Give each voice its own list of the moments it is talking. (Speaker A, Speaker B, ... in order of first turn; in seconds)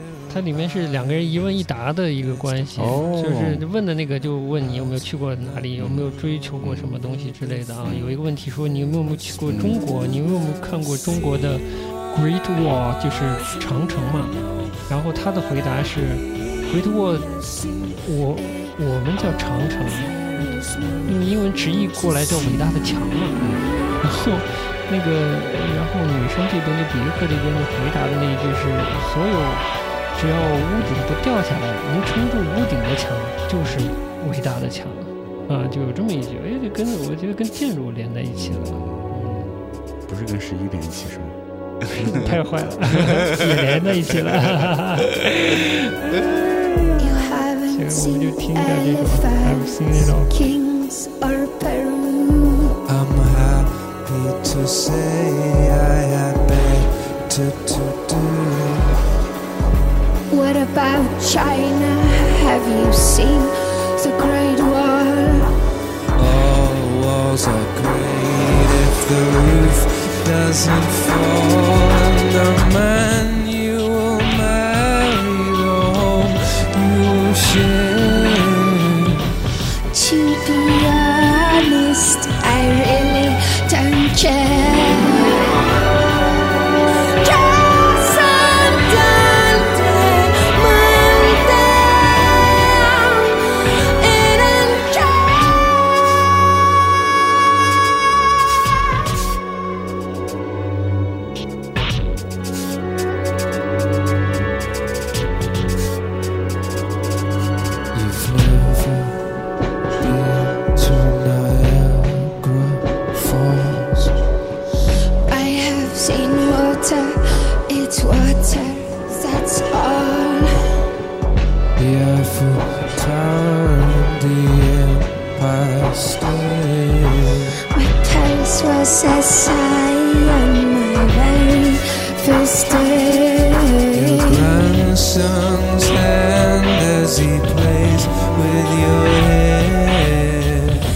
Speaker A: 0.3-14.4, 14.9-20.3, 21.1-23.4, 24.0-38.9, 41.9-46.0, 47.7-50.4
Speaker B: 2.8-3.7, 5.8-6.9, 7.8-8.2, 9.5-9.8, 23.4-23.7, 38.4-45.4, 134.4-134.9
Speaker C: 47.0-52.8, 60.3-65.5, 79.9-86.0, 86.5-96.2, 115.3-120.8, 127.7-134.6
Speaker D: 52.9-59.0, 66.2-79.2, 107.9-109.3, 110.0-114.2, 121.8-127.6, 133.9-140.8